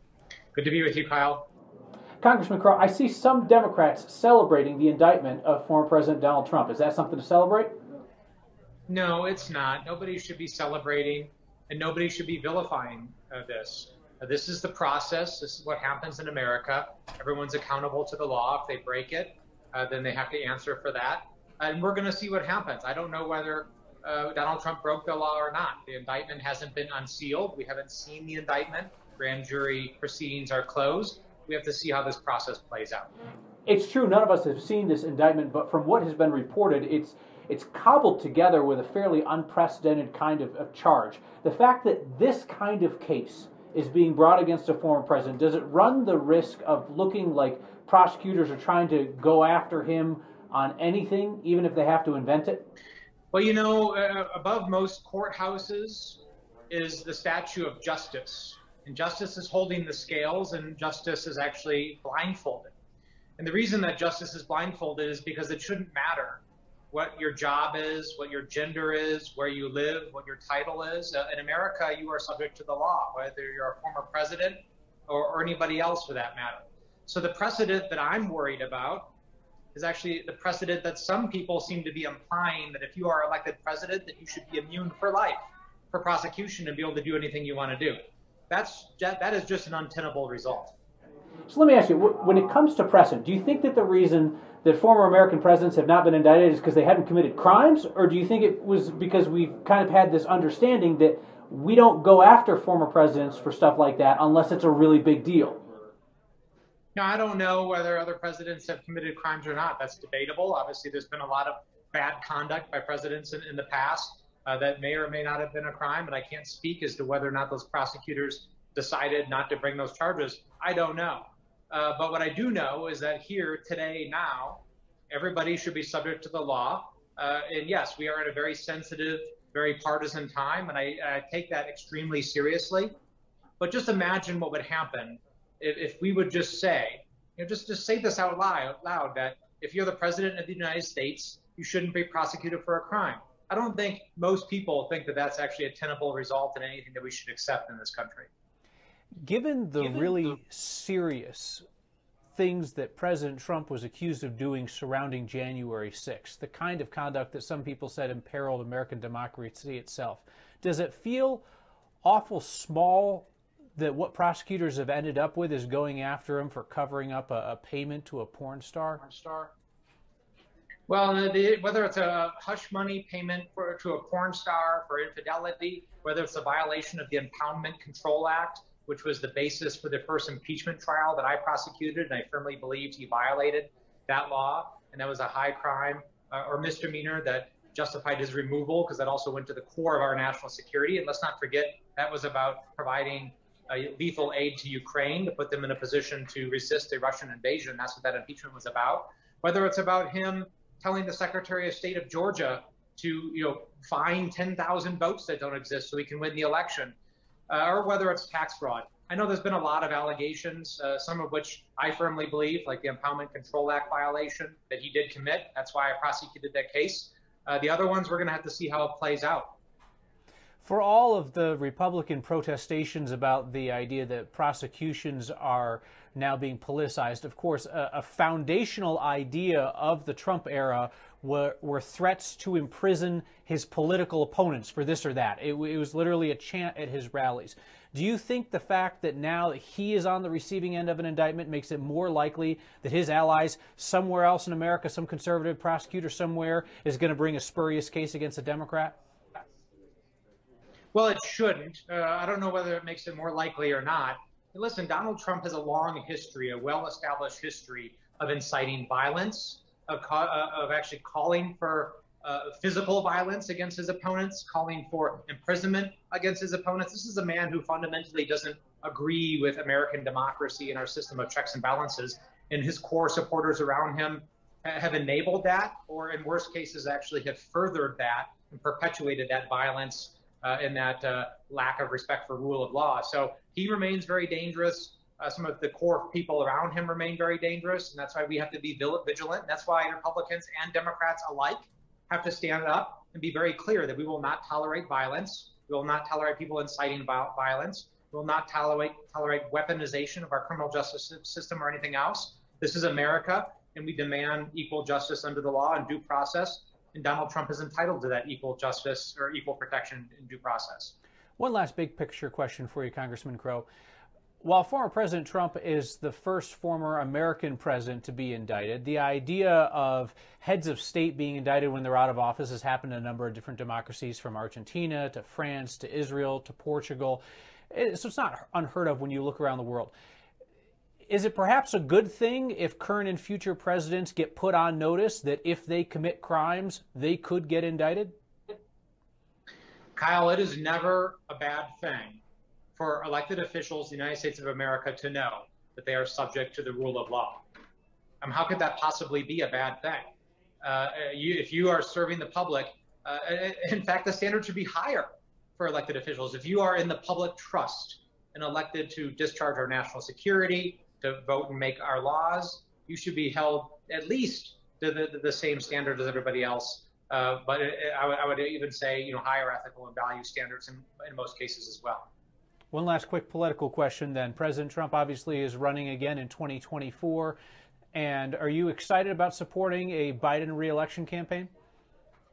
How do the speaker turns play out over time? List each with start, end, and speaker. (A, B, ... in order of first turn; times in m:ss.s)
0:00.5-0:01.5 A
0:02.2-0:07.7 B
0:08.9-0:33.1 A
0:33.6-0:52.6 B
0:53.3-1:02.7 A
1:03.4-1:19.1 A
1:19.7-1:28.0 A
1:28.5-1:30.7 A
1:31.5-1:45.6 B
1:47.0-2:12.9 A
2:13.6-2:28.3 A
2:29.2-2:31.6 B
2:32.3-2:41.4 B
2:42.0-2:49.0 B
2:49.0-2:49.5 A
2:50.9-3:26.9 A
3:27.5-3:39.6 A
3:40.6-4:08.9 B
4:10.9-5:10.9 A
5:11.4-5:13.6 B
5:14.4-5:29.9 B
5:31.1-5:38.1 B
5:40.0-5:42.2 A
5:42.8-5:47.4 A
5:48.2-6:12.1 A
6:12.7-6:17.4 B
6:17.9-6:21.5 B